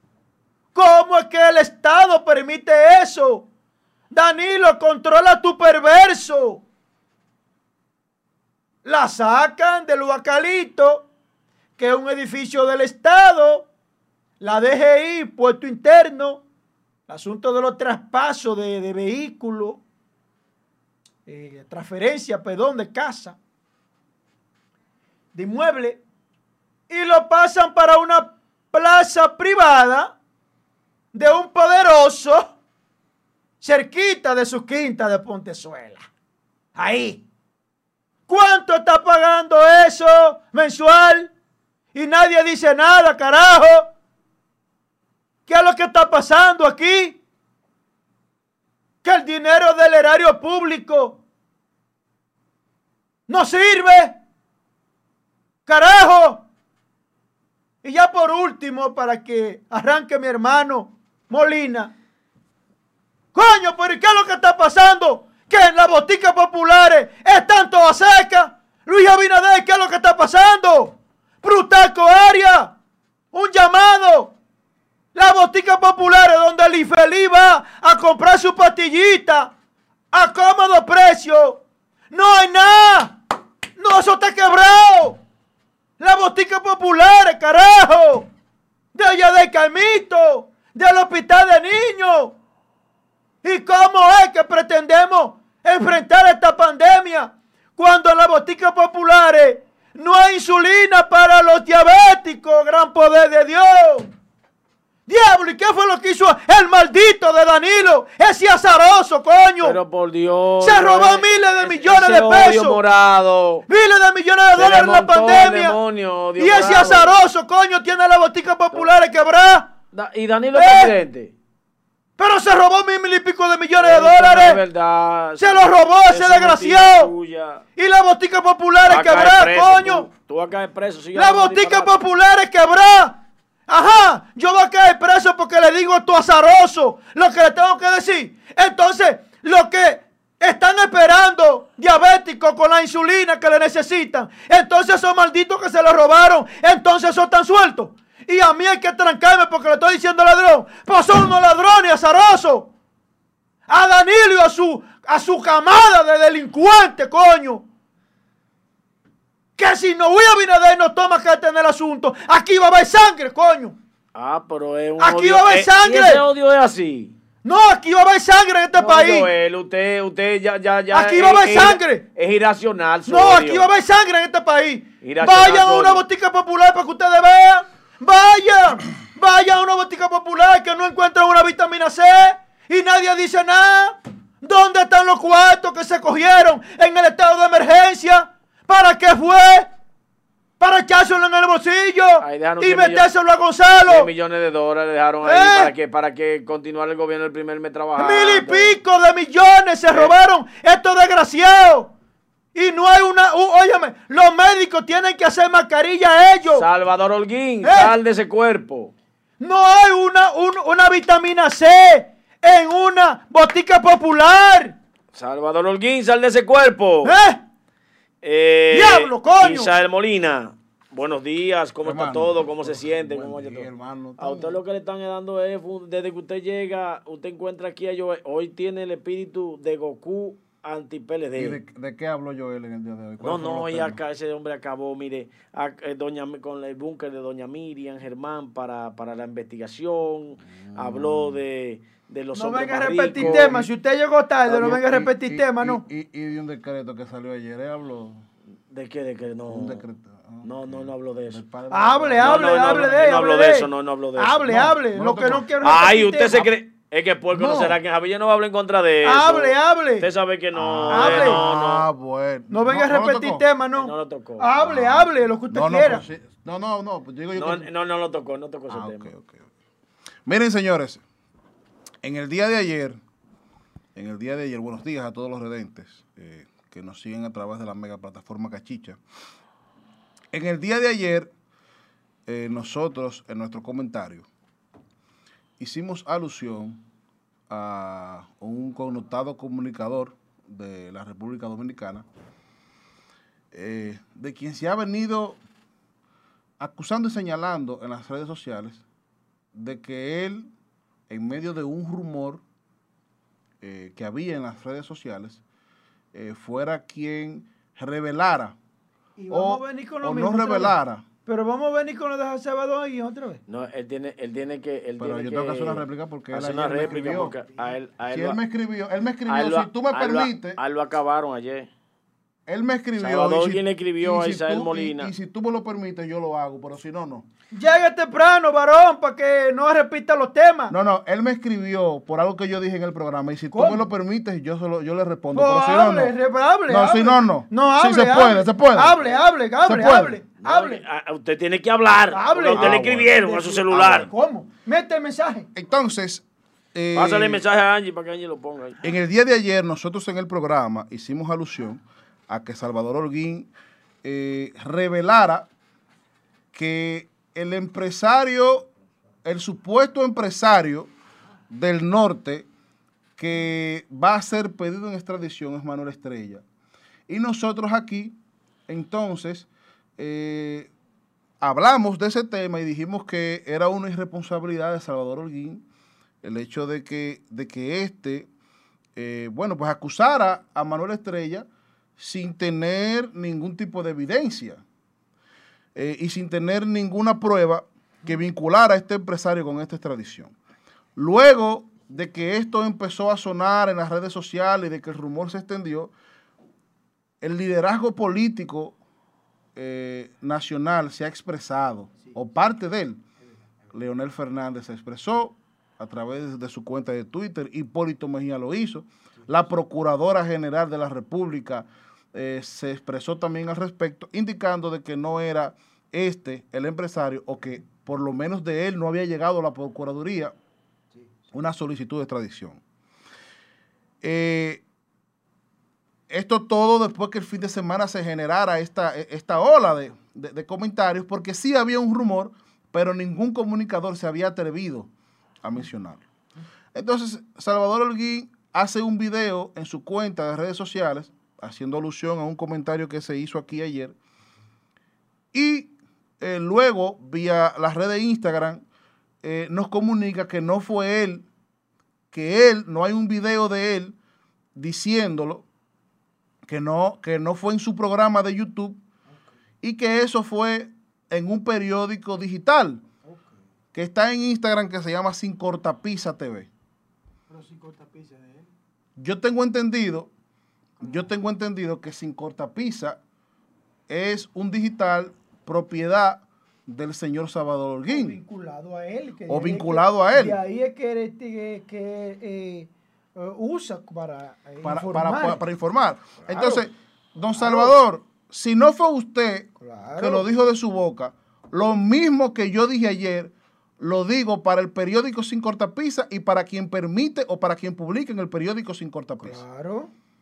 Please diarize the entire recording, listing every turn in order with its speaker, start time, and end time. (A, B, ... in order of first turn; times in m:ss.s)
0:00.7-0:03.5 A
0:04.1-0:06.6 A
0:08.8-0:11.1 A
0:11.8-0:13.7 A
0:14.4-0:16.4 A
0:17.1-0:19.8 A
0:21.3-0:23.4 A
0:25.4-0:26.0 A
0:26.9-0:30.2 A
0:31.1-0:32.5 A
0:33.6-0:36.1 A
0:36.8-0:37.2 A
0:38.3-0:41.3 A
0:41.9-0:43.9 A
0:45.5-0:47.2 A
0:49.0-0:51.2 A
0:53.3-0:54.2 A
0:55.7-0:56.4 A
0:57.8-1:01.9 A
1:03.4-1:12.7 A
1:13.3-1:14.3 A
1:15.2-1:19.5 A
1:20.1-1:23.2 A
1:23.8-1:25.2 A
1:26.0-1:28.3 A
1:29.0-1:32.4 A
1:33.4-1:44.1 A
1:45.1-1:49.8 A
1:49.6-1:53.6 B
1:50.6-1:52.8 A
1:53.7-1:55.8 A
1:54.5-1:57.2 B
1:56.4-1:59.7 A
1:59.9-2:01.3 B
2:00.5-2:00.9 A
2:02.2-2:04.6 A
2:03.8-2:07.6 B
2:05.4-2:07.1 A
2:07.8-2:10.1 A
2:08.9-2:11.9 B
2:11.2-2:32.7 A
2:33.7-2:37.6 A
2:39.6-2:43.8 A
2:44.2-2:47.2 B
2:45.0-2:46.2 A
2:47.4-2:49.3 A
2:48.7-2:53.7 B
2:50.9-2:52.0 A
2:53.1-3:09.7 A
2:55.0-2:56.0 B
3:10.6-3:14.1 A
3:12.2-3:13.1 B
3:13.9-3:18.8 B
3:15.2-3:15.7 A
3:18.0-3:21.9 A
3:22.6-3:26.7 A
3:26.5-3:28.9 B
3:27.6-3:28.0 A
3:29.4-3:34.8 A
3:35.1-3:37.1 B
3:37.0-3:37.4 A
3:38.2-3:51.6 B
3:38.7-3:39.7 A
3:41.8-3:44.6 C
3:51.4-3:54.0 C
3:53.2-4:03.6 B
4:00.7-4:01.4 C
4:02.3-4:05.8 A
4:03.1-4:03.7 C
4:04.5-4:08.2 C
4:08.7-4:09.8 B
4:09.5-4:13.0 C
4:10.4-4:11.4 B
4:11.7-4:16.5 A
4:12.2-4:14.6 B
4:14.5-4:15.5 C
4:15.6-4:21.9 B
4:17.3-4:17.8 C
4:19.0-4:20.1 A
4:20.6-4:23.4 C
4:20.9-4:21.4 A
4:22.5-4:26.0 A
4:23.7-4:24.5 B
4:24.6-4:27.7 C
4:27.3-4:29.1 B
4:28.7-4:29.4 C
4:30.3-4:31.0 C
4:32.0-4:33.0 C
4:34.0-4:39.0 C
4:40.3-4:41.3 C
4:42.3-4:44.3 C
4:45.6-4:46.8 C
4:47.5-4:52.1 C
4:53.5-4:55.4 C
4:56.6-4:58.8 C
4:59.6-5:00.5 C
5:01.1-5:02.4 C
5:03.6-5:05.4 C
5:06.1-5:08.6 C
5:09.2-5:13.4 A
5:09.3-5:11.0 C
5:13.5-5:18.4 B
5:15.0-5:17.4 C
5:18.1-5:20.6 C
5:19.3-5:21.7 B
5:22.5-5:27.3 C
5:23.0-5:25.1 B
5:27.5-5:30.7 A
5:30.7-5:36.1 C
5:33.5-5:33.9 A
5:35.3-5:40.8 A
5:36.7-5:39.0 C
5:39.6-5:40.3 C
5:40.4-5:44.1 B
5:42.1-5:45.5 A
5:42.5-5:44.1 C
5:45.6-5:46.2 C
5:46.7-5:47.4 C
5:47.0-5:48.8 B
5:48.8-5:53.5 C
5:54.0-5:55.5 C
5:56.5-5:58.7 C
5:59.2-6:00.9 C
6:01.5-6:02.5 C
6:03.2-6:06.4 C
6:07.1-6:08.2 C
6:08.7-6:10.7 C
6:11.4-6:15.6 C
6:16.2-6:18.3 C
6:19.0-6:21.5 C
6:22.0-6:24.6 C
6:25.7-6:30.3 C
6:31.0-6:35.9 C
6:37.2-6:38.8 C
6:39.6-6:43.0 C
6:43.7-7:00.3 C
7:01.3-7:02.6 C
7:04.0-7:04.6 C
7:06.1-7:14.9 C
7:15.4-7:16.0 C
7:16.7-7:24.0 C
7:25.3-7:28.6 C
7:29.2-7:31.3 C
7:32.1-7:34.0 C
7:34.6-7:35.4 C
7:36.4-7:38.8 C
7:39.6-7:42.8 C
7:43.7-7:46.5 C
7:47.3-7:48.4 A
7:49.0-7:50.1 C
7:50.8-7:53.0 C
7:53.9-7:58.2 C
7:57.9-8:05.4 A
7:59.3-8:00.4 C
8:04.6-8:19.4 C
8:06.2-8:06.7 A
8:07.4-8:07.8 A
8:09.6-8:10.3 A
8:19.2-8:19.9 A